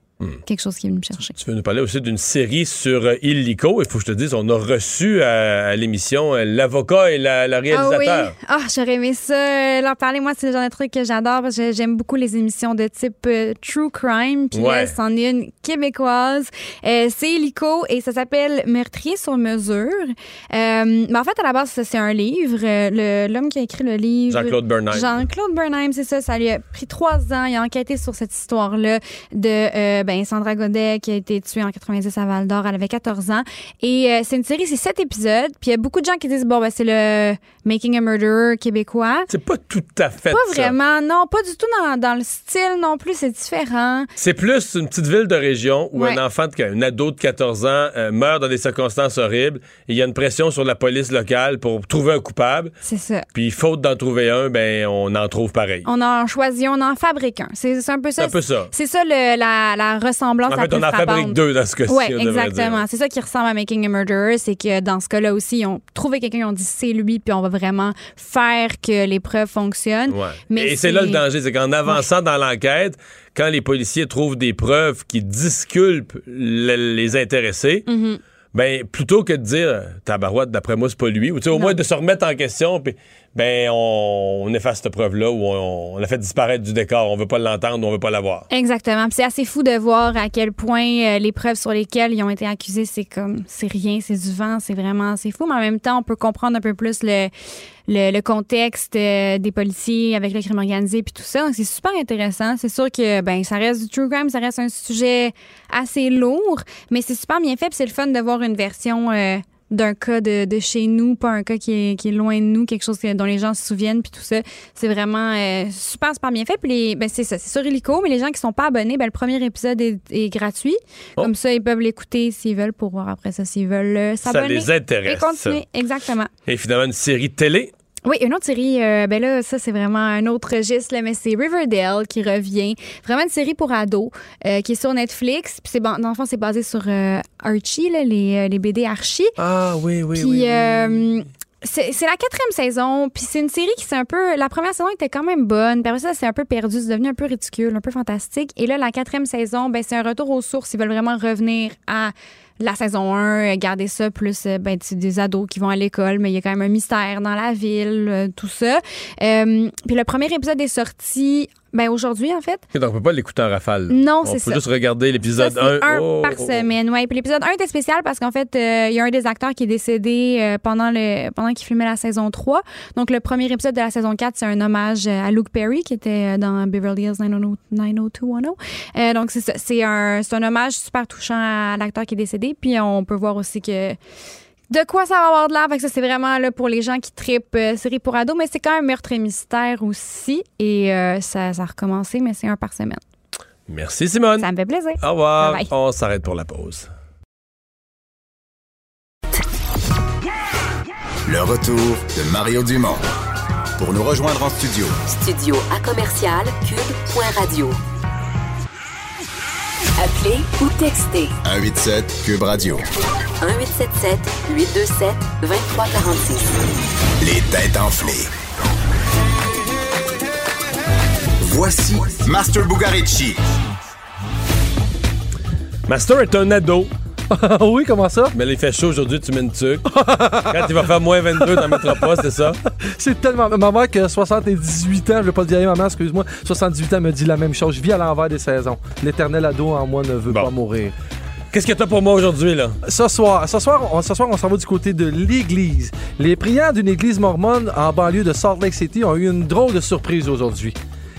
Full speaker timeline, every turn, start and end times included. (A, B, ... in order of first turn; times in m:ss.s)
0:00.5-0:01.3 A
0:01.4-0:08.3 B
0:07.7-0:39.3 A
0:14.5-0:15.0 B
0:24.3-0:25.1 B
0:39.3-0:40.8 B
0:40.3-0:44.1 A
0:44.2-0:52.7 B
0:45.9-0:46.2 A
0:52.8-0:53.2 A
0:53.3-0:55.9 B
0:55.9-1:11.2 A
0:58.2-0:58.7 B
1:00.5-1:02.8 B
1:10.1-1:17.9 B
1:17.9-1:18.2 A
1:18.5-1:28.5 B
1:21.5-1:21.8 A
1:28.5-1:37.3 A
1:37.9-2:06.3 A
2:04.3-2:05.6 B
2:06.5-2:07.7 B
2:08.1-2:19.4 A
2:19.4-2:21.1 B
2:20.1-2:42.6 A
2:42.7-2:46.7 B
2:43.9-2:44.6 A
2:45.4-3:04.0 A
3:04.7-3:13.0 A
3:13.7-3:16.9 B
3:14.4-3:15.7 A
3:21.3-3:23.0 C
3:23.8-3:25.0 C
3:25.1-3:27.8 D
3:30.0-3:31.4 D
3:31.4-3:32.8 C
3:33.4-3:36.6 D
3:37.2-3:38.3 C
3:41.4-3:43.4 C
3:45.9-3:46.9 B
3:47.3-3:48.3 E
3:48.3-3:49.9 B
3:49.9-3:52.3 E
3:50.5-3:52.6 B
3:53.0-4:00.9 E
4:01.5-4:02.8 B
4:02.8-4:10.8 E